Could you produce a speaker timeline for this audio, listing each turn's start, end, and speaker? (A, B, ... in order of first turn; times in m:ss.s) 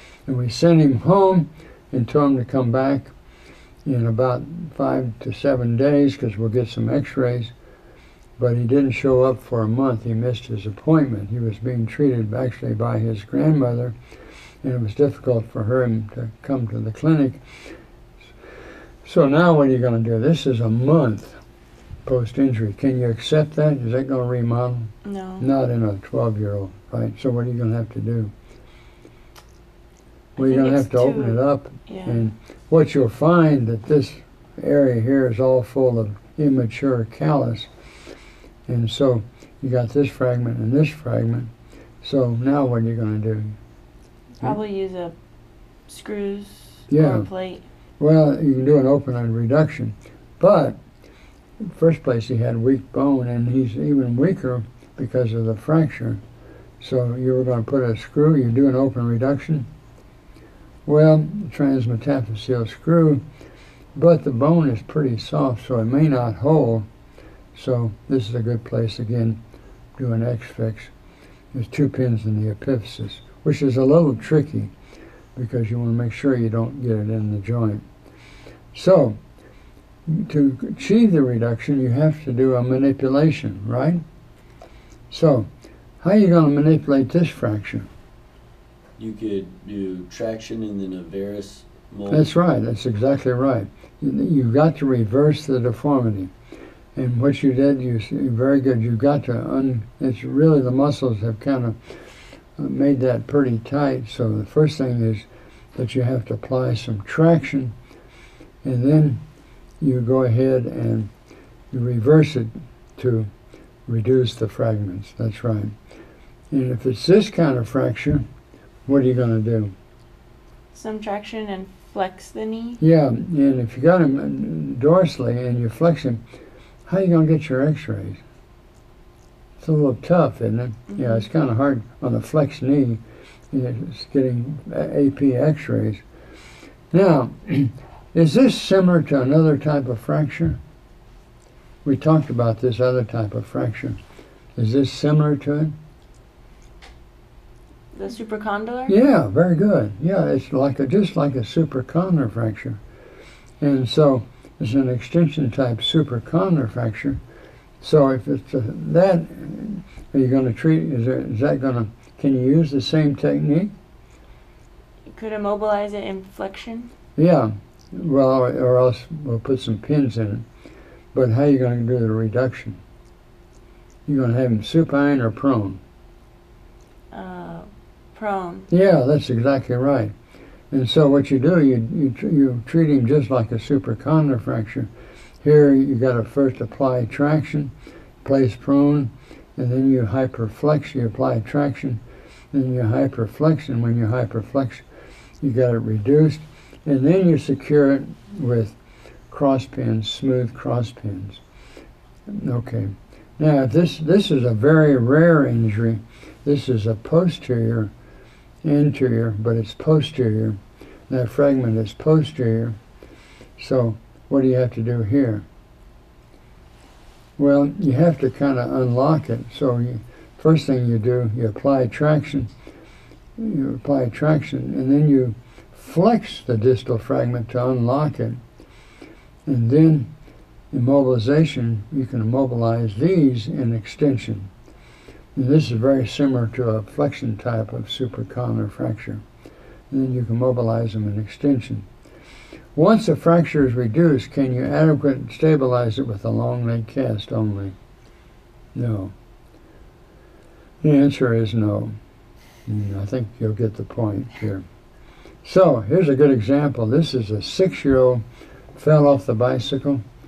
0:00.3-0:03.1 A
0:03.8-0:07.5 A
0:08.4-0:14.0 A
0:14.6-0:17.4 A
0:19.0-0:21.4 A
0:22.0-0:28.3 A
0:25.0-0:25.5 B
0:30.4-0:32.2 B
0:30.4-0:37.7 A
0:38.7-0:41.5 A
0:42.0-0:43.6 A
0:44.4-0:45.1 B
0:45.9-0:47.6 B
0:46.9-0:47.3 A
0:48.0-0:50.8 A
0:51.6-0:56.2 A
0:56.8-0:59.7 A
1:00.9-1:03.2 A
1:04.0-1:06.9 A
1:07.5-1:09.4 A
1:10.0-1:10.9 A
1:11.5-1:14.7 A
1:15.4-1:17.8 A
1:18.7-1:19.2 A
1:20.1-1:24.0 A
1:25.1-1:25.5 A
1:26.0-1:27.9 A
1:29.0-1:32.3 C
1:32.1-1:36.3 A
1:37.0-1:41.8 A
1:42.6-1:47.7 A
1:48.6-1:49.2 A
1:49.8-1:51.1 A
1:51.7-1:53.3 A
1:53.9-1:55.8 A
1:56.5-1:58.3 A
1:58.9-1:59.7 A
2:00.7-2:02.8 B
2:02.8-2:06.2 A
2:06.9-2:08.2 A
2:09.6-2:16.0 A
2:10.9-2:11.2 B
2:16.9-2:20.6 A
2:21.8-2:24.0 A
2:24.6-2:25.8 A
2:27.9-2:28.9 B
2:28.9-2:32.8 A
2:33.6-2:37.2 A
2:37.8-2:43.7 A
2:45.1-2:46.9 B
2:47.2-2:50.4 A
2:51.1-2:52.8 A
2:54.1-2:55.8 A
2:57.1-2:58.7 B
2:58.7-3:00.1 A
3:00.7-3:04.9 A
3:05.4-3:07.7 A
3:08.2-3:12.0 A
3:12.5-3:14.8 A
3:15.4-3:18.8 A
3:19.3-3:21.4 A
3:22.3-3:27.9 A
3:28.6-3:32.8 A
3:33.6-3:35.4 A
3:37.4-3:42.5 A
3:43.4-3:48.4 A
3:49.5-3:50.1 A
3:50.7-3:54.5 A
3:55.4-3:59.2 A
3:59.9-4:01.9 A
4:02.8-4:07.8 A
4:08.8-4:09.1 A
4:10.8-4:12.0 A
4:12.7-4:14.6 A
4:15.4-4:18.2 A
4:18.8-4:20.0 A